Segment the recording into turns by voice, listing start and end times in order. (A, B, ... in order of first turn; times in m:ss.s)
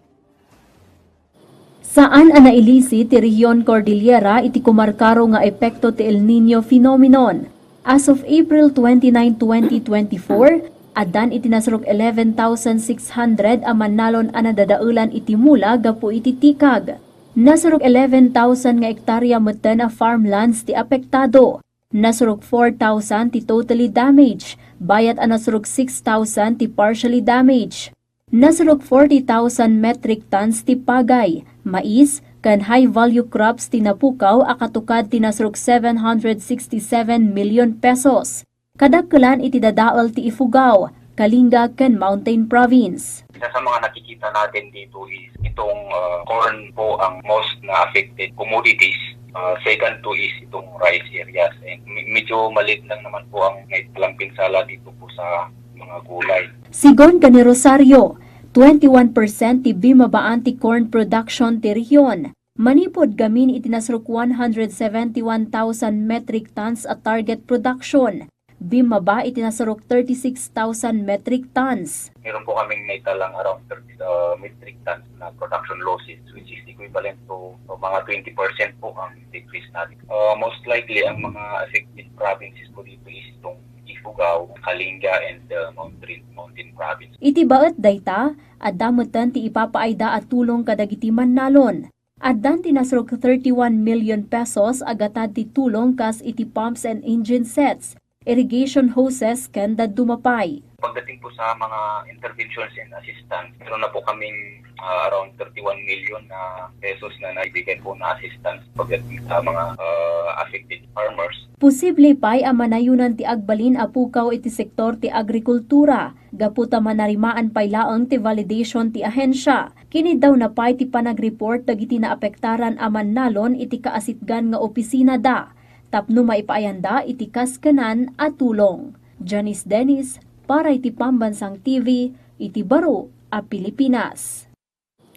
0:01.8-0:43.2 A
0:43.4-0:56.5 B
0:56.7-1:12.1 A
1:12.2-1:27.1 B
1:27.2-1:40.6 A
1:40.8-1:44.3 B
1:44.8-1:51.4 B
1:51.6-2:14.4 A